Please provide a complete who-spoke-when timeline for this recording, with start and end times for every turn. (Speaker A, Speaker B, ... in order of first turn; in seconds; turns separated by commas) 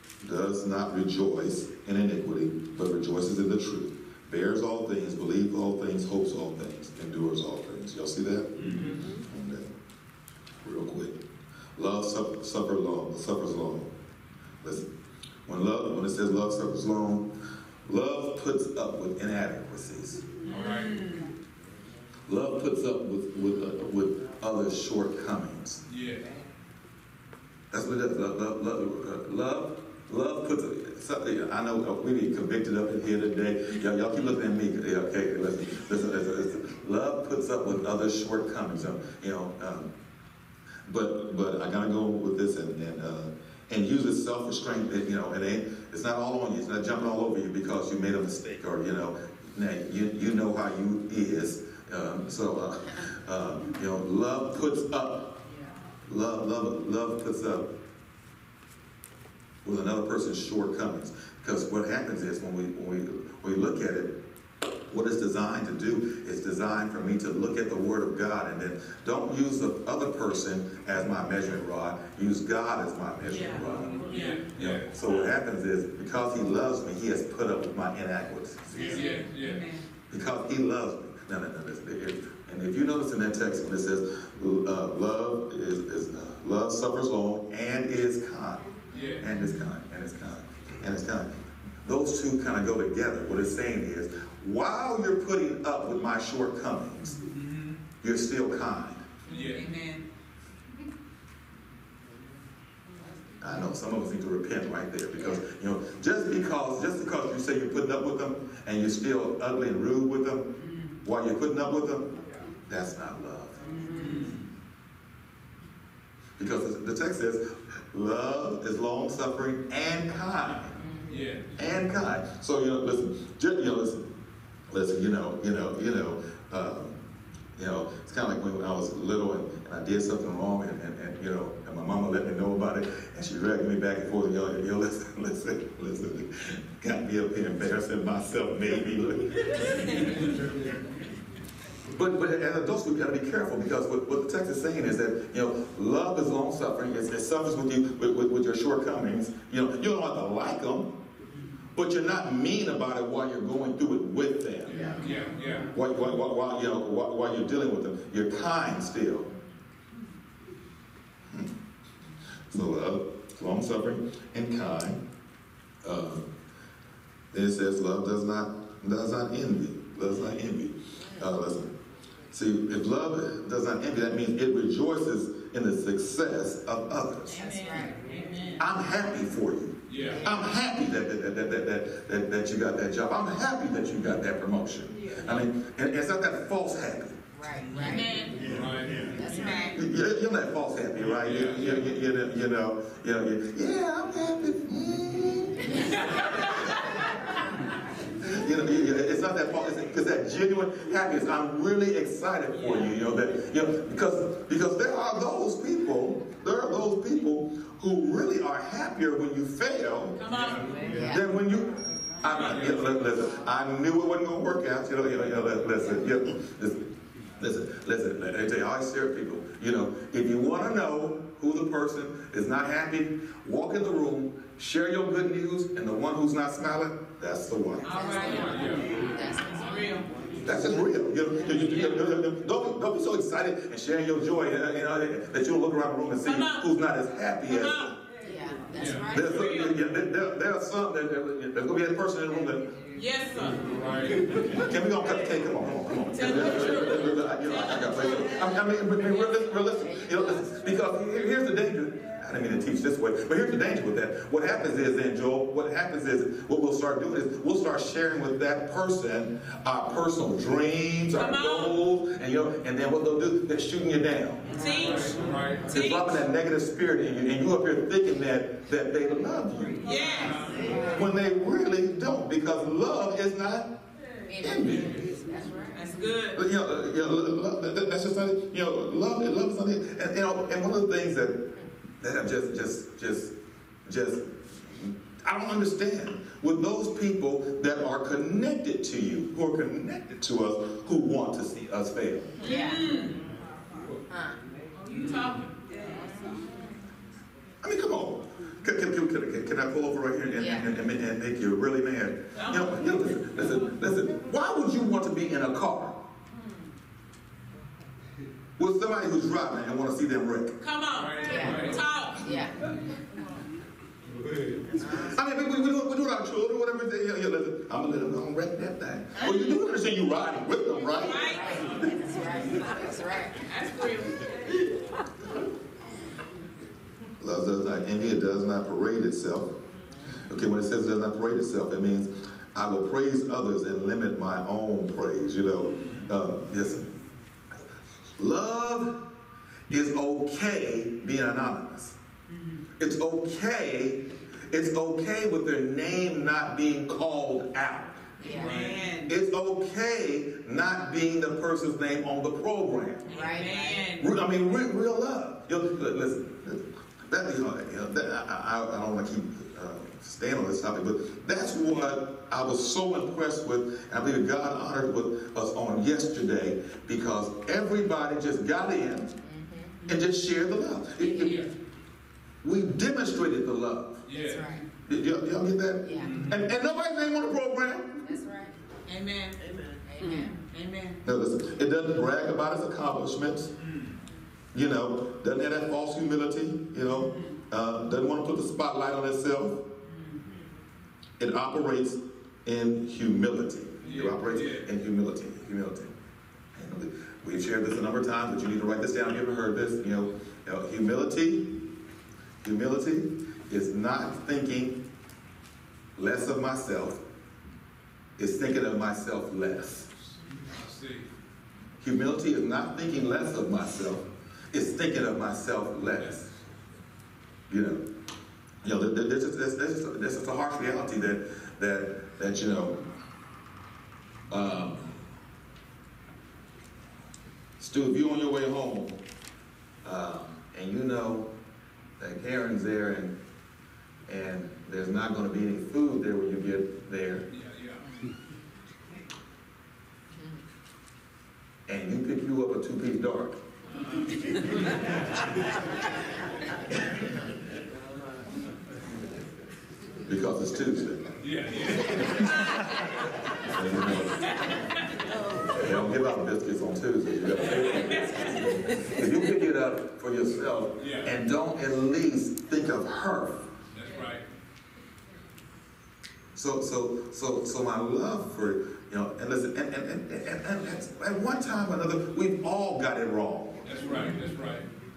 Speaker A: 0.2-8.5, Speaker B: 8.6-9.0, Speaker A: 9.3-9.7, Speaker A: 10.6-11.2, Speaker A: 11.8-13.9, Speaker A: 14.6-14.9, Speaker A: 15.5-17.3, Speaker A: 17.9-20.2, Speaker C: 20.4-21.3, Speaker B: 20.5-21.0, Speaker A: 22.3-25.8, Speaker B: 25.9-26.2, Speaker A: 27.7-39.9, Speaker A: 40.9-55.4, Speaker A: 56.1-57.7, Speaker A: 59.6-64.2, Speaker A: 64.9-79.0, Speaker C: 73.3-74.4, Speaker B: 74.1-74.9, Speaker B: 78.7-79.7, Speaker C: 78.8-79.9, Speaker A: 80.1-88.7, Speaker B: 88.9-89.2, Speaker C: 88.9-89.6, Speaker A: 89.2-91.3, Speaker A: 91.8-97.2, Speaker B: 97.2-97.8, Speaker A: 98.0-99.1, Speaker B: 99.3-99.7, Speaker C: 99.3-100.1, Speaker A: 103.4-112.2, Speaker C: 110.6-111.0, Speaker A: 112.7-113.6, Speaker C: 113.6-114.3, Speaker B: 113.9-114.4, Speaker A: 116.4-120.8, Speaker D: 120.8-121.1, Speaker B: 121.1-121.6, Speaker A: 121.6-124.1, Speaker A: 124.7-127.0, Speaker A: 127.6-139.4, Speaker A: 141.9-150.9, Speaker A: 151.7-155.0, Speaker C: 154.7-155.7, Speaker B: 154.7-155.7, Speaker D: 154.8-155.0, Speaker A: 155.7-159.3, Speaker A: 162.5-165.0, Speaker A: 165.8-166.3, Speaker A: 167.3-171.7, Speaker A: 172.3-177.3, Speaker C: 177.3-178.7, Speaker D: 177.3-178.0, Speaker A: 178.6-187.2, Speaker B: 179.9-180.3, Speaker D: 187.3-188.3, Speaker C: 187.7-188.6, Speaker B: 188.4-189.2, Speaker D: 189.1-189.8, Speaker C: 189.2-189.8, Speaker A: 189.7-196.8, Speaker B: 191.1-191.8, Speaker C: 196.0-196.9, Speaker D: 197.0-197.4, Speaker A: 198.2-210.2, Speaker C: 210.2-210.9, Speaker D: 210.9-211.3, Speaker A: 211.0-216.8, Speaker C: 212.3-212.8, Speaker B: 212.3-212.8, Speaker A: 217.4-227.9, Speaker C: 227.8-230.1, Speaker D: 227.9-229.9, Speaker B: 228.3-228.9, Speaker A: 230.4-238.0, Speaker C: 236.2-236.7, Speaker C: 237.5-237.9, Speaker D: 238.2-239.5, Speaker B: 238.7-239.4, Speaker A: 239.1-242.7, Speaker C: 239.1-239.8, Speaker C: 242.9-243.7, Speaker B: 243.6-244.2, Speaker A: 244.6-264.4, Speaker C: 246.1-248.4, Speaker D: 249.6-250.6, Speaker C: 261.1-261.8, Speaker C: 264.5-266.2, Speaker B: 264.7-265.7, Speaker A: 265.7-270.1, Speaker C: 269.8-270.9, Speaker B: 270.1-270.8, Speaker D: 270.4-271.1, Speaker A: 270.9-273.7, Speaker D: 274.3-275.9, Speaker A: 274.4-275.1, Speaker C: 275.7-276.4, Speaker A: 276.4-281.5, Speaker A: 282.0-283.3, Speaker A: 283.9-292.3, Speaker D: 292.4-292.9, Speaker C: 292.4-293.2, Speaker D: 294.1-294.4, Speaker C: 294.8-296.3, Speaker B: 294.9-295.3, Speaker A: 297.6-306.0, Speaker D: 300.4-300.7, Speaker C: 302.4-303.2, Speaker A: 308.6-310.6, Speaker C: 310.6-312.4, Speaker B: 310.9-311.9, Speaker D: 311.2-312.5, Speaker A: 314.9-321.9, Speaker C: 319.2-319.6, Speaker C: 320.8-321.9, Speaker D: 321.1-323.4, Speaker C: 323.4-324.3, Speaker A: 327.2-329.5, Speaker A: 330.2-336.9, Speaker A: 338.2-339.0, Speaker A: 339.7-342.0, Speaker C: 342.3-342.6, Speaker A: 342.8-348.1, Speaker D: 348.2-348.6, Speaker C: 348.2-349.1, Speaker B: 348.3-348.8, Speaker A: 349.1-353.1, Speaker D: 353.1-353.9, Speaker C: 353.1-354.1, Speaker A: 354.0-369.1, Speaker D: 369.2-369.8, Speaker A: 369.9-371.4, Speaker B: 371.1-371.5, Speaker A: 372.4-374.0, Speaker B: 374.1-374.6, Speaker D: 374.1-374.6, Speaker A: 374.9-378.0, Speaker D: 375.8-376.2, Speaker B: 376.0-376.4, Speaker D: 378.0-378.6, Speaker C: 378.9-379.4, Speaker D: 379.9-380.3, Speaker C: 380.0-381.0, Speaker A: 381.0-383.5, Speaker B: 383.6-384.0, Speaker A: 384.5-389.6, Speaker C: 386.9-387.4, Speaker C: 389.8-390.4, Speaker A: 391.2-395.9, Speaker B: 393.8-394.7, Speaker A: 396.6-401.6, Speaker A: 402.4-404.8, Speaker A: 406.0-407.0, Speaker A: 408.2-409.9, Speaker B: 410.4-411.1, Speaker A: 411.8-416.3, Speaker A: 417.5-417.8, Speaker A: 418.6-422.8, Speaker A: 424.3-424.9, Speaker A: 427.6-429.0, Speaker A: 429.8-431.3, Speaker A: 432.0-433.2, Speaker A: 434.1-437.3, Speaker B: 437.3-437.8, Speaker A: 441.7-443.4, Speaker A: 450.1-451.1, Speaker B: 451.2-452.3, Speaker A: 453.4-454.3, Speaker C: 454.4-454.7, Speaker A: 455.6-463.5, Speaker C: 457.6-458.2, Speaker B: 460.8-461.1, Speaker B: 463.7-464.2, Speaker A: 466.4-473.6, Speaker B: 473.6-474.7